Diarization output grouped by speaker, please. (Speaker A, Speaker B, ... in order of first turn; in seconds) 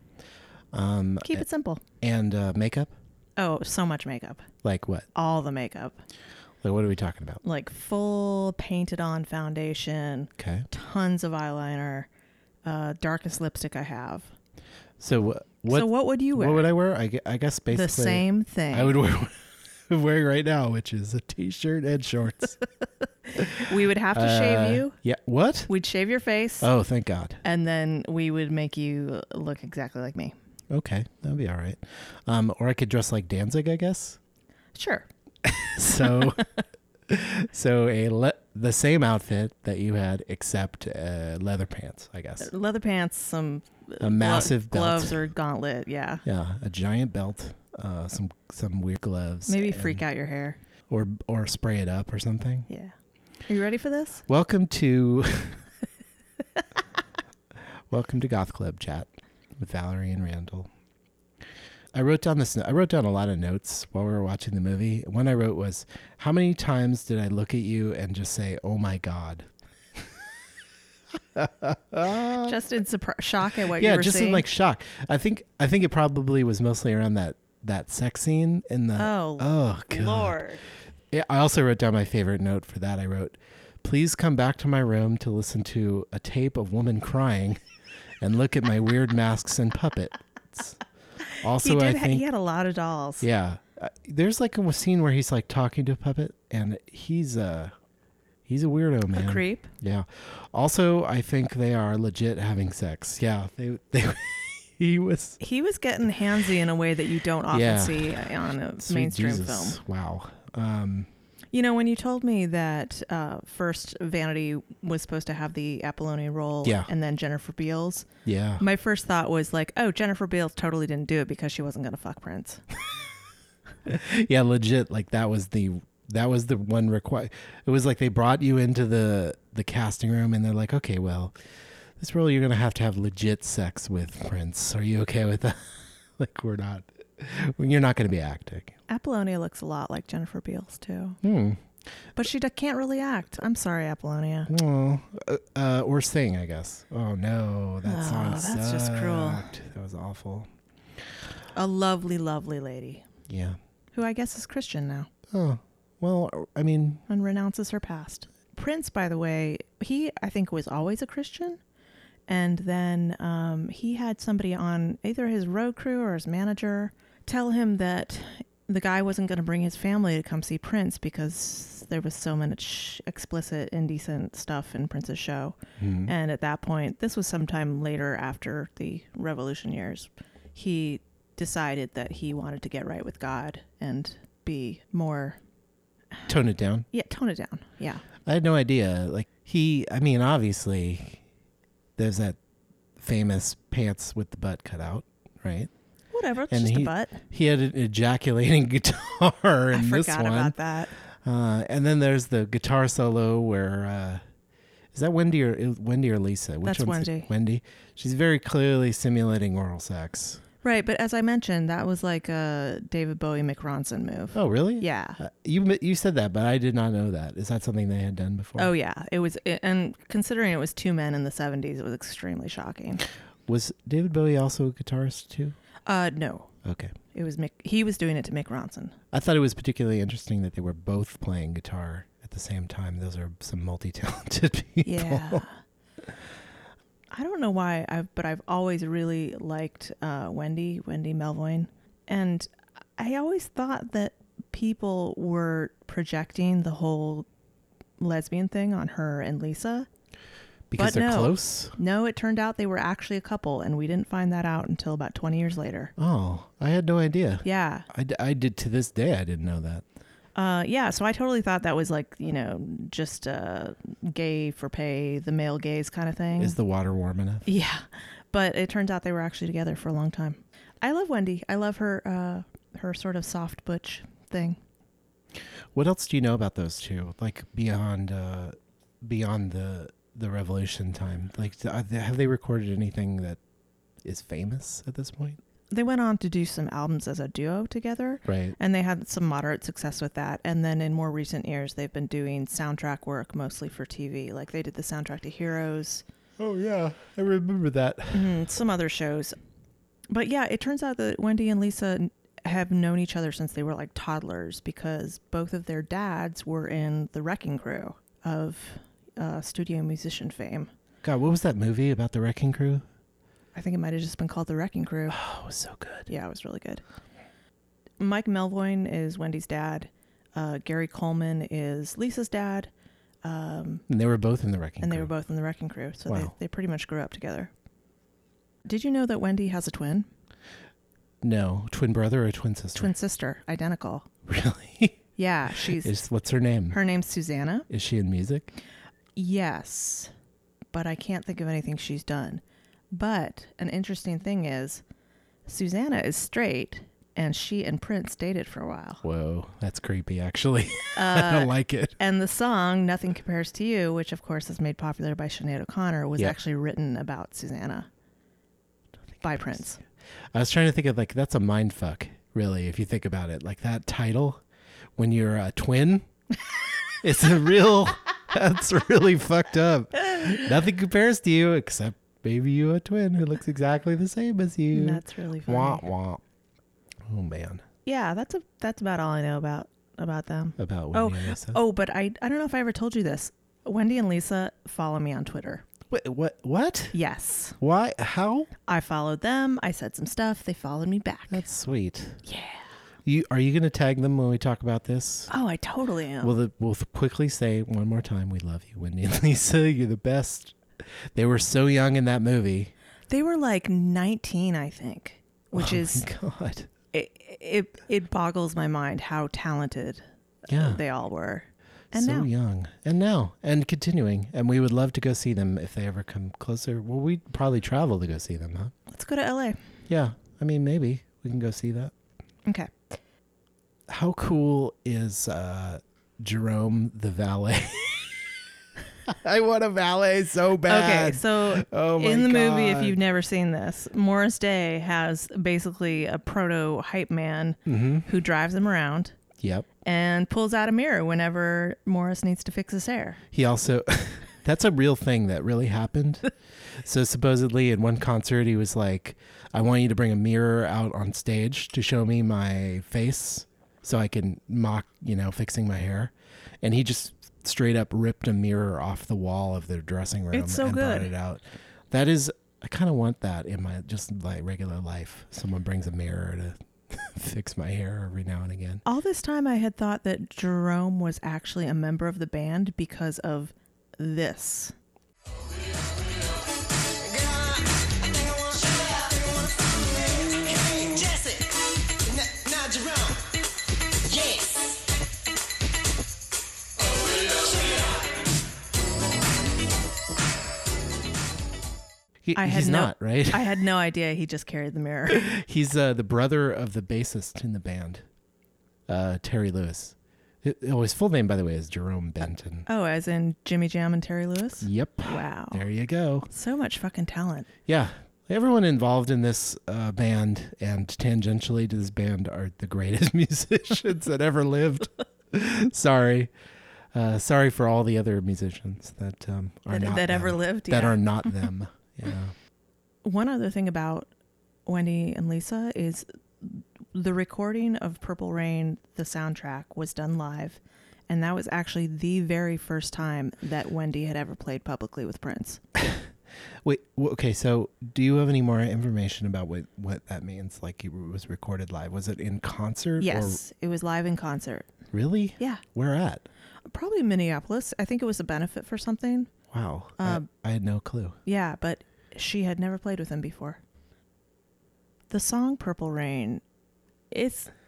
Speaker A: 0.7-1.4, 2.0-2.9, 4.6-5.1, 6.6-7.4, 10.4-10.7, 15.0-22.6, 23.4-25.7, 26.6-27.4, 30.7-34.2, 35.5-36.5, 37.1-42.5, 44.0-45.3, 46.2-50.0, 50.9-52.7, 54.3-55.6, 57.9-60.7, 61.9-70.1, 71.3-72.6, 73.7-80.4, 81.1-87.6, 88.2-90.8, 91.4-92.2, 93.2-97.7, 98.5-105.4, 107.5-111.1, 116.6-116.9, 118.2-118.6, 123.8-131.3, 132.0-138.8, 141.2-141.6, 144.5-150.5, 153.3-153.6, 155.3-157.0, 175.8-176.1, 186.3-186.9, 188.3-191.2, 192.0-192.4, 193.0-195.7, 196.5-200.6, 201.2-204.2, 204.9-210.4, 214.3-218.7, 223.5-225.6, 226.6-226.9, 229.1-235.4, 250.7-251.8, 256.0-259.8, 266.4-267.5, 275.7-283.4, 284.0-285.4, 288.3-288.6, 296.4-298.3, 311.0-312.9, 315.1-316.1, 323.9-325.1, 326.1-326.3, 331.2-332.9, 334.3-335.0, 335.6-336.8, 337.7-338.5, 349.0-352.0, 359.2-359.6, 360.3-364.4, 365.0-366.1, 367.0-376.2, 377.1-377.6, 380.6-381.6, 385.9-386.9, 387.6-388.5, 391.3-392.2, 393.1-395.3, 396.2-402.7, 405.5-406.7, 410.5-410.8, 411.9-418.7, 419.9-421.9, 423.9-428.3, 429.1-433.0, 437.6-438.1, 439.4-439.7, 443.3-468.8, 492.2-493.6, 495.1-498.1, 498.9-502.7, 504.6-506.3, 507.7-516.3, 516.9-522.3, 535.8-536.1, 536.6-543.4, 544.9-546.3, 549.5-551.2
Speaker B: 1.2-1.8, 3.4-4.5, 5.1-6.0, 7.4-12.1, 12.6-14.3, 15.7-16.7, 17.7-18.9, 23.4-25.0, 25.7-26.7, 27.4-30.3, 34.8-35.1, 42.4-46.2, 49.5-50.6, 52.7-52.9, 53.5-54.2, 72.4-74.5, 79.0-80.6, 91.6-93.3, 99.1-99.7, 105.4-109.8, 111.5-118.1, 118.6-122.6, 138.9-141.2, 142.2-144.5, 147.8-149.5, 151.5-153.1, 153.9-155.1, 157.1-161.6, 162.3-185.4, 186.9-188.0, 196.1-197.2, 199.7-200.9, 206.6-207.3, 210.6-215.2, 218.6-223.0, 225.9-226.5, 227.1-229.0, 234.8-235.6, 237.1-247.3, 248.0-249.9, 250.8-255.9, 257.4-257.9, 260.4-266.6, 267.5-274.6, 285.7-296.0, 298.1-299.4, 300.1-310.7, 313.6-315.2, 316.1-316.8, 318.0-322.7, 323.2-323.9, 324.8-327.5, 328.6-330.1, 332.8-334.1, 335.1-336.0, 336.7-337.7, 339.1-340.1, 340.7-344.8, 345.5-349.0, 350.9-357.9, 359.2-359.8, 374.7-375.8, 377.9-385.6, 386.9-387.6, 388.7-391.4, 392.3-392.6, 395.3-396.3, 403.1-406.1, 406.9-412.3, 418.9-419.6, 422.5-422.8, 430.6-439.1, 439.8-443.2, 460.3-461.1, 468.9-474.7, 492.4-495.3, 502.7-505.6, 506.3-507.5, 519.7-521.4, 523.0-524.1, 524.6-535.6, 543.0-544.7, 546.7-549.3, 550.0-550.3, 551.2-553.6, 555.1-556.4, 557.1-557.5
Speaker C: 477.0-481.5, 482.1-483.2, 484.1-484.7, 487.3-487.8